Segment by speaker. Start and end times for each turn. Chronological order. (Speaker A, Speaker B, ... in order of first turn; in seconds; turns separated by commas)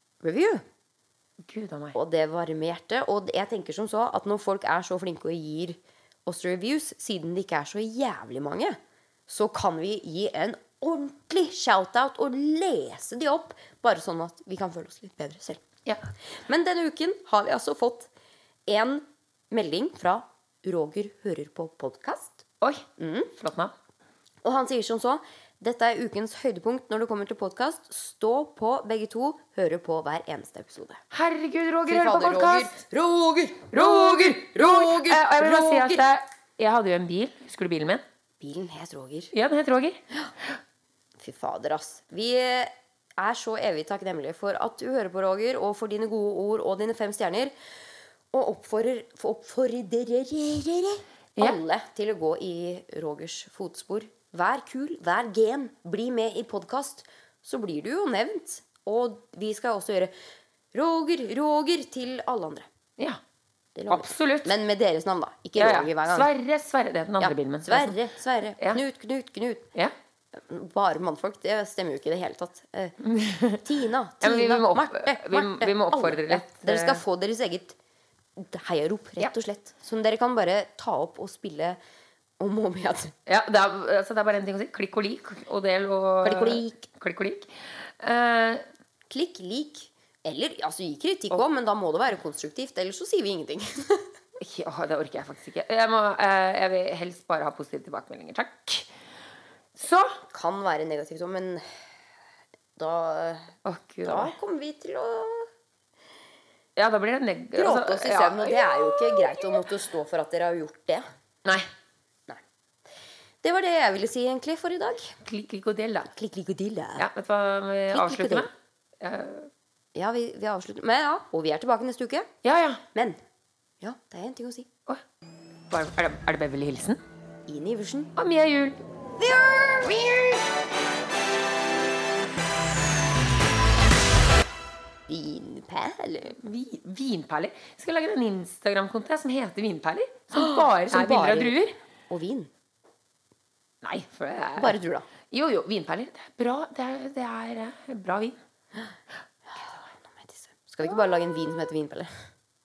Speaker A: 0.2-0.6, Speaker B: 1.4-2.0, Speaker A: 1.9-8.8, Speaker A: 9.3-15.6, Speaker A: 16.4-18.1, Speaker A: 18.7-22.4, Speaker B: 22.6-23.7, Speaker A: 23.0-23.3, Speaker A: 24.4-31.0, Speaker B: 31.1-32.8, Speaker A: 31.9-36.0, Speaker B: 33.7-38.0, Speaker A: 38.4-39.3, Speaker B: 39.3-40.0, Speaker A: 41.2-47.5, Speaker A: 48.3-60.1, Speaker A: 60.7-62.7, Speaker A: 63.8-66.3, Speaker B: 63.9-64.5, Speaker B: 65.6-68.0, Speaker A: 67.2-69.7, Speaker A: 70.3-73.0, Speaker B: 73.0-73.6, Speaker A: 73.5-77.8, Speaker B: 74.2-77.0, Speaker A: 78.4-81.8, Speaker A: 82.4-83.1, Speaker B: 83.3-88.7, Speaker A: 86.2-86.8, Speaker A: 89.1-94.1, Speaker B: 94.4-98.9, Speaker B: 99.8-100.2, Speaker A: 100.3-101.8, Speaker A: 102.8-105.5, Speaker B: 103.7-104.3, Speaker B: 106.8-109.6, Speaker A: 107.5-111.0, Speaker A: 113.4-115.2, Speaker B: 115.2-116.1, Speaker A: 116.1-117.1, Speaker B: 117.0-119.5, Speaker A: 117.9-118.5, Speaker A: 120.0-122.3, Speaker B: 122.4-122.8, Speaker A: 123.8-124.7, Speaker B: 125.7-127.0, Speaker A: 127.5-128.1, Speaker B: 128.2-128.8, Speaker A: 129.2-130.1, Speaker B: 129.8-130.5, Speaker A: 135.1-136.4, Speaker B: 136.4-141.8, Speaker A: 140.3-142.5, Speaker B: 143.8-144.8, Speaker A: 144.6-145.1, Speaker B: 145.3-148.4, Speaker A: 149.5-152.2